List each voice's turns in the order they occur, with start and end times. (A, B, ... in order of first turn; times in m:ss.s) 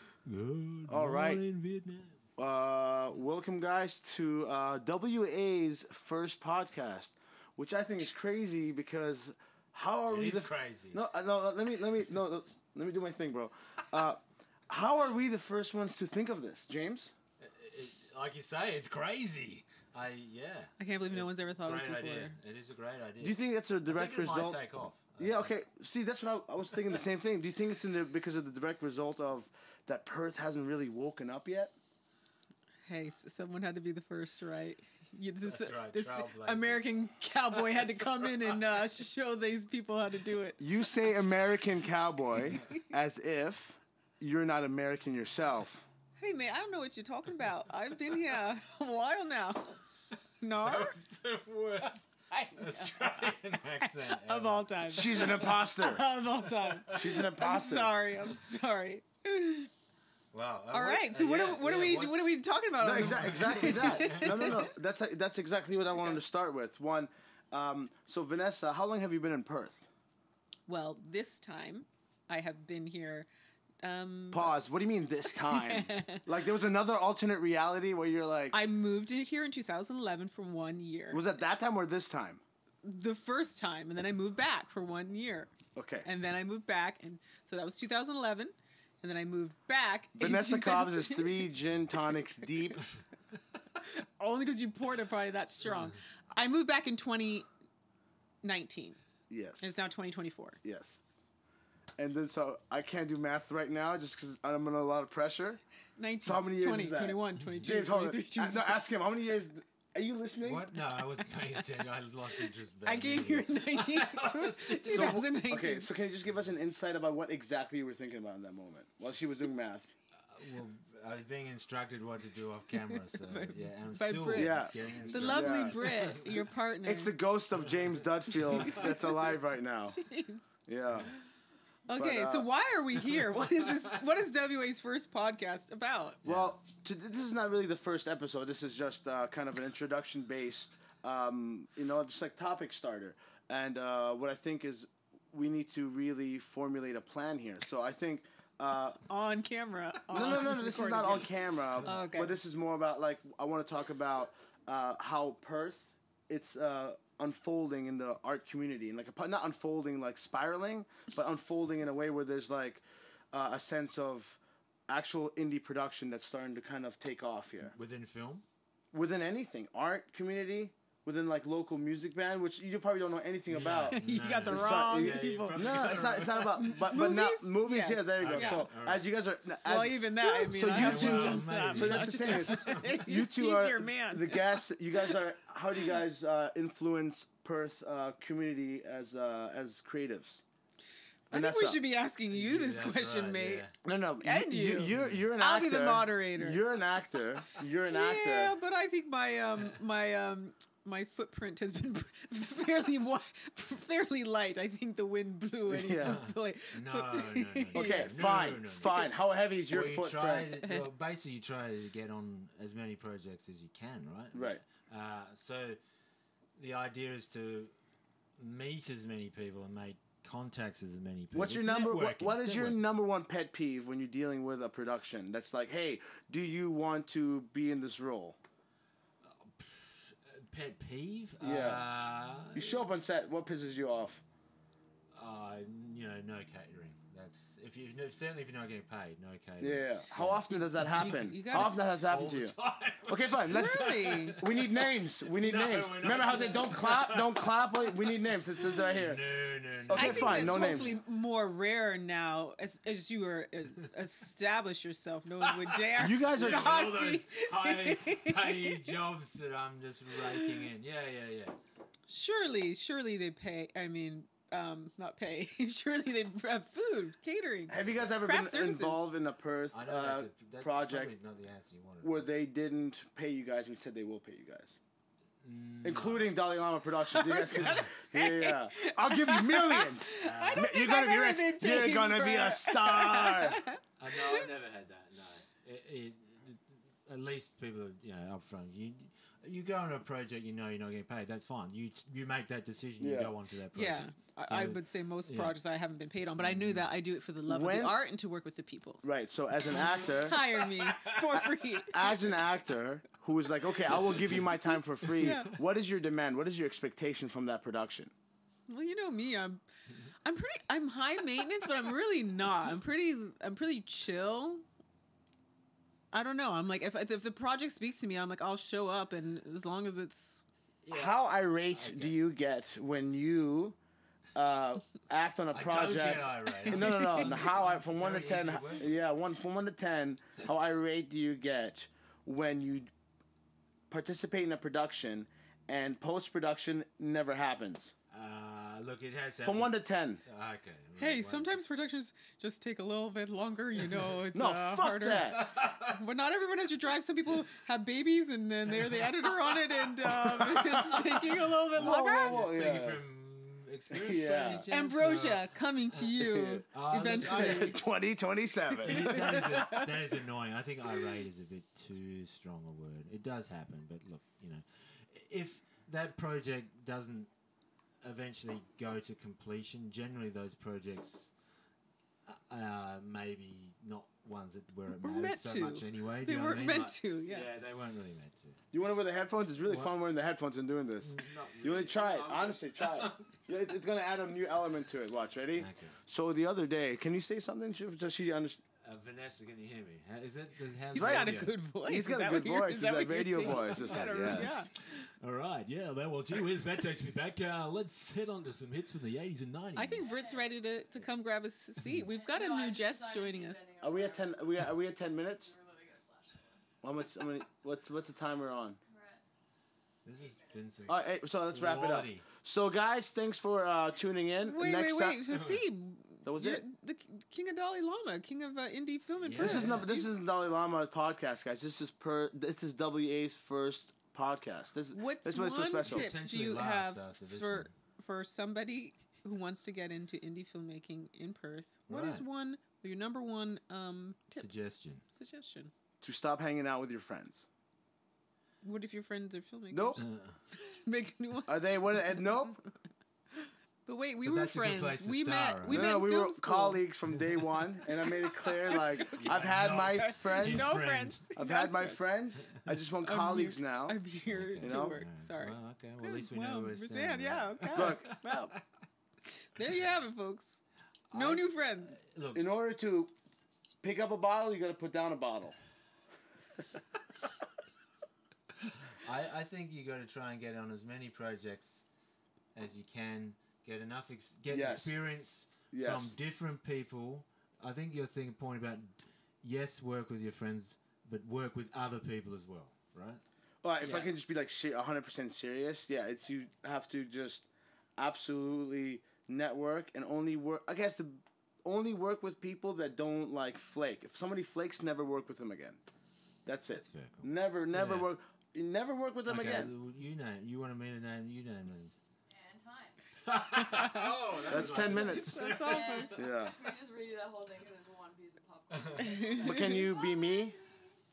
0:00.1-0:02.2 A
0:00.9-0:01.4 B
0:02.4-0:17.1 B
0:10.1-0:11.0 A
0:17.4-0:25.5 A
0:20.8-0:22.3 C
0:23.2-0:24.6 B
0:25.2-0:31.7 B
0:32.8-0:40.6 C
0:35.4-0:37.0 A
0:37.6-0:38.6 A
0:40.6-0:45.8 B
0:46.2-0:49.8 C
0:50.4-0:51.0 C
0:50.6-0:55.6 A
0:52.3-0:53.2 C
0:53.8-0:59.7 C
0:54.9-0:56.0 B
0:56.7-0:57.2 A
0:56.9-0:57.9 B
1:00.3-1:04.7 A
1:00.7-1:04.7 C
1:02.8-1:09.9 B
1:10.7-1:13.3 C
1:13.8-1:14.6 C
1:14.3-1:18.6 B
1:15.2-1:16.3 C
1:18.5-1:21.2 C
1:21.1-1:22.4 B
1:22.8-1:31.5 C
1:25.8-1:26.1 B
1:30.2-1:32.8 B
1:33.8-1:37.5 C
1:38.4-1:39.0 C
1:39.3-1:39.7 B
1:39.6-1:40.6 C
1:40.6-1:41.0 B
1:42.0-1:45.6 B
1:46.0-1:48.8 C
1:46.2-1:50.7 B
1:50.4-1:55.2 A
1:51.4-1:51.8 C
1:52.4-1:55.9 C
1:54.9-1:59.9 B
2:00.3-2:06.3 A
2:02.9-2:07.1 C
2:04.4-2:05.8 B
2:06.8-2:10.0 B
2:07.7-2:08.9 A
2:09.9-2:10.5 C
2:10.6-2:11.1 B
2:11.9-2:16.2 C
2:11.9-2:12.5 B
2:16.2-2:16.6 A
2:16.2-2:29.0 B
2:29.1-2:32.3 C
2:30.1-2:47.8 B
2:47.7-2:48.4 A
2:48.9-3:10.4 B
2:53.5-2:56.9 A
2:53.9-2:56.0 C
2:56.6-2:58.7 C
2:58.2-2:59.1 A
2:59.6-3:05.2 C
3:00.5-3:03.1 A
3:11.3-3:11.8 B
3:11.3-3:13.7 C
3:12.3-3:13.7 A
3:13.8-3:18.5 B
3:14.2-3:16.6 C
3:14.9-3:15.2 A
3:17.9-3:28.1 C
3:25.7-3:26.2 B
3:26.0-3:29.0 A
3:27.7-3:30.6 B
3:29.7-3:35.8 A
3:34.3-3:34.6 B
3:36.6-3:37.7 A
3:38.4-3:42.8 A
3:41.3-3:48.4 B
3:49.2-3:52.8 A
3:51.4-3:51.8 B
3:52.5-3:54.2 B
3:55.1-4:11.0 A
3:59.6-4:09.2 B
4:01.0-4:01.8 C
4:03.5-4:04.4 C
4:09.9-4:11.0 B
4:09.9-4:18.9 C
4:15.4-4:21.6 A
4:16.0-4:17.0 B
4:20.2-4:20.6 C
4:22.1-4:29.0 C
4:27.7-4:31.1 B
4:29.7-4:32.2 A
4:32.0-4:34.8 B
4:35.4-4:36.3 A
4:35.8-4:43.6 B
4:37.1-4:44.5 C
4:37.6-4:37.8 A
4:40.2-4:40.7 A
4:44.0-4:55.6 A
4:53.0-4:53.3 B
4:53.8-4:59.1 C
4:56.4-4:56.9 A
4:57.5-4:58.0 B
4:59.0-5:00.5 B
4:59.7-5:02.1 C
5:00.8-5:01.2 A
5:01.4-5:08.1 B
5:03.9-5:04.5 A
5:05.1-5:05.4 A
5:05.2-5:05.5 C
5:08.7-5:09.6 C
5:10.2-5:14.6 C
5:16.1-5:20.4 C
5:20.8-5:22.2 A
5:20.9-5:23.8 B
5:24.3-5:32.9 B
5:25.5-5:28.9 A
5:26.5-5:27.4 C
5:33.9-5:37.9 B
5:38.1-5:41.6 A
5:39.4-5:40.2 B
5:41.0-5:52.4 C
5:44.3-5:45.5 B
5:45.3-5:46.0 A
5:48.7-5:49.7 A
5:50.3-5:51.0 B
5:51.8-5:53.0 B
5:51.8-5:56.1 A
5:53.9-5:54.7 B
5:54.7-5:57.8 C
5:56.2-5:56.6 B
5:56.7-5:57.8 A
5:57.2-5:59.5 B
5:58.8-5:59.9 C
5:58.8-6:07.3 A
6:08.0-6:11.3 A
6:12.2-6:18.6 A
6:15.0-6:17.5 C
6:18.7-6:28.6 B
6:19.7-6:19.9 A
6:21.0-6:23.2 A
6:25.5-6:26.0 A
6:28.8-6:31.5 A
6:30.9-6:34.6 B
6:30.9-6:34.7 C
6:33.6-6:40.1 A
6:39.8-6:43.7 C
6:39.9-6:40.8 D
6:41.8-6:42.1 A
6:42.1-6:46.6 D
6:43.8-6:45.5 B
6:46.8-6:48.8 B
6:48.9-6:49.2 D
6:50.0-6:52.3 A
6:50.1-6:50.9 D
6:50.9-6:55.3 B
6:54.4-7:00.1 C
6:55.3-6:55.6 A
6:56.2-6:56.6 B
6:59.2-6:59.9 A
6:59.4-7:06.1 B
7:04.9-7:14.5 C
7:05.8-7:07.7 A
7:11.9-7:12.2 A
7:14.4-7:15.0 A
7:15.1-7:15.7 C
7:16.0-7:17.5 B
7:18.6-7:22.7 C
7:19.7-7:20.0 B
7:20.0-7:20.4 A
7:21.5-7:22.6 B
7:23.3-7:26.8 C
7:24.2-7:25.9 A
7:25.7-7:30.8 B
7:28.0-7:32.0 C
7:29.2-7:31.2 A
7:31.3-7:34.0 B
7:33.0-7:38.6 C
7:34.2-7:38.6 A
7:34.6-7:35.0 B
7:37.7-7:38.1 B
7:39.4-7:40.6 C
7:41.1-7:42.4 A
7:41.1-7:42.0 C
7:42.3-7:43.1 B
7:43.8-7:45.6 B
7:48.6-7:51.8 A
7:52.5-8:03.2 A
7:54.5-7:55.0 B
7:55.7-7:56.1 B
8:03.6-8:15.8 B
8:16.4-8:19.7 B
8:16.7-8:18.1 A
8:19.2-8:21.9 A
8:22.3-8:23.0 D
8:23.2-8:26.1 A
8:23.5-8:24.1 C
8:24.5-8:25.4 B
8:24.6-8:26.2 C
8:25.4-8:30.9 D
8:26.1-8:26.6 B
8:28.7-8:29.1 A
8:29.0-8:29.9 C
8:29.4-8:30.6 B